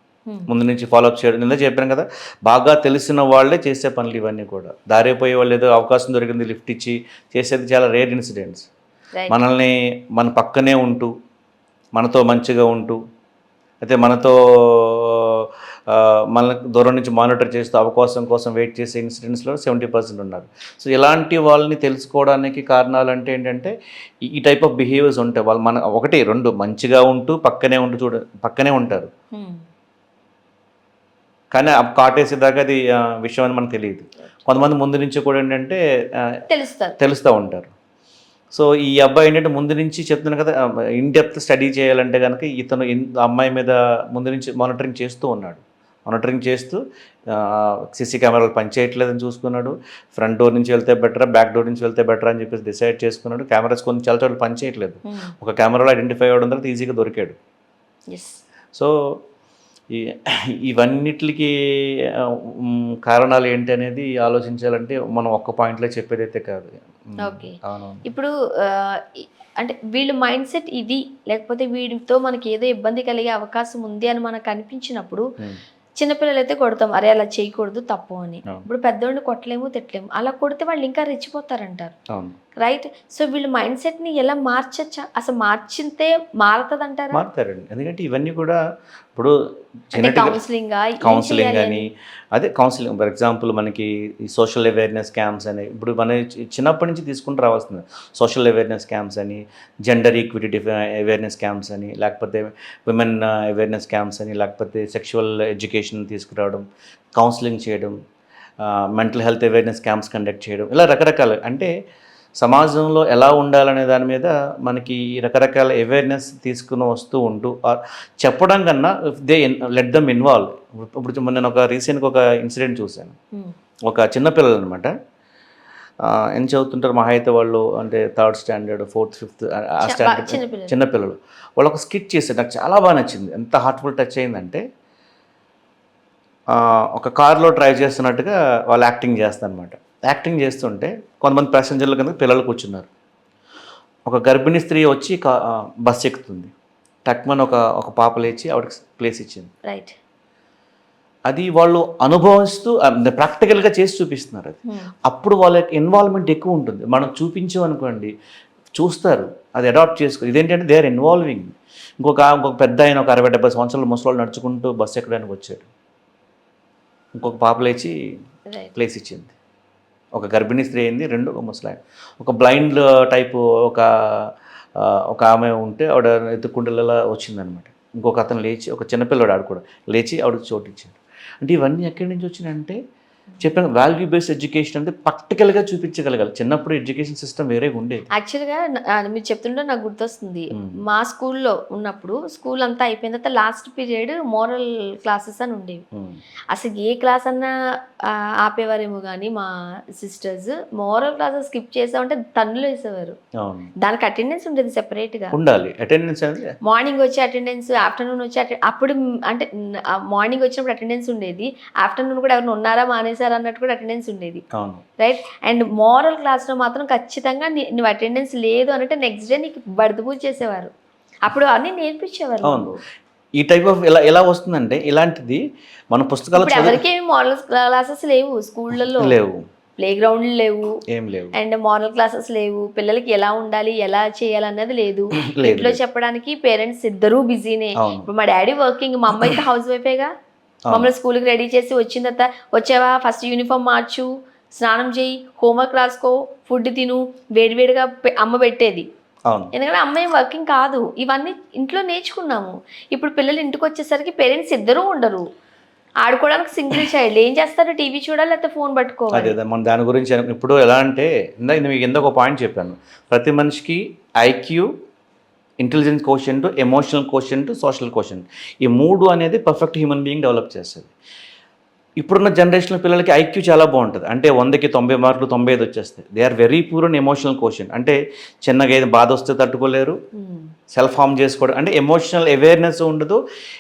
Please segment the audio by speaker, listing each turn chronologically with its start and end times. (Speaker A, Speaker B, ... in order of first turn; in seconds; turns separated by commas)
Speaker A: 0.5-8.7, Speaker A: 9.3-11.1, Speaker A: 11.9-13.0, Speaker A: 13.8-23.7, Speaker A: 24.3-29.1, Speaker B: 29.3-29.6, Speaker A: 31.5-36.4, Speaker B: 36.5-37.0, Speaker A: 37.0-37.7, Speaker A: 38.5-57.4, Speaker B: 55.1-55.3, Speaker B: 58.1-58.4, Speaker A: 58.7-59.2, Speaker A: 59.9-68.1, Speaker B: 67.2-75.3, Speaker B: 76.0-81.9, Speaker B: 82.6-87.2, Speaker A: 87.1-88.6, Speaker A: 89.9-90.4, Speaker B: 90.0-91.8, Speaker A: 91.0-108.0, Speaker A: 108.6-111.7, Speaker A: 112.4-123.2, Speaker A: 123.9-124.9, Speaker A: 126.0-134.6, Speaker B: 129.8-130.7, Speaker A: 136.5-142.9, Speaker A: 144.1-146.5, Speaker A: 147.1-149.5, Speaker B: 149.7-149.9, Speaker A: 151.3-158.1, Speaker A: 158.8-165.7, Speaker A: 167.2-167.9, Speaker B: 168.5-168.7, Speaker A: 168.8-169.3, Speaker A: 170.2-182.8, Speaker A: 183.4-188.1, Speaker B: 188.1-195.8, Speaker A: 195.9-196.2, Speaker B: 196.5-197.5, Speaker B: 198.1-203.2, Speaker A: 203.4-203.7, Speaker B: 203.8-205.3, Speaker A: 205.3-206.6, Speaker B: 206.7-214.4, Speaker A: 214.5-214.8, Speaker B: 215.0-220.7, Speaker B: 221.3-222.8, Speaker A: 222.4-222.7, Speaker A: 223.4-226.8, Speaker B: 226.4-229.2, Speaker A: 228.8-229.4, Speaker B: 229.8-230.8, Speaker A: 230.9-231.4, Speaker B: 231.3-240.1, Speaker A: 235.3-235.8, Speaker A: 237.8-238.1, Speaker B: 240.7-244.1, Speaker B: 244.6-248.9, Speaker B: 249.5-255.2, Speaker B: 256.1-259.4, Speaker A: 259.1-264.7, Speaker A: 265.6-270.9, Speaker A: 272.0-280.0, Speaker B: 280.1-280.5, Speaker A: 280.7-283.2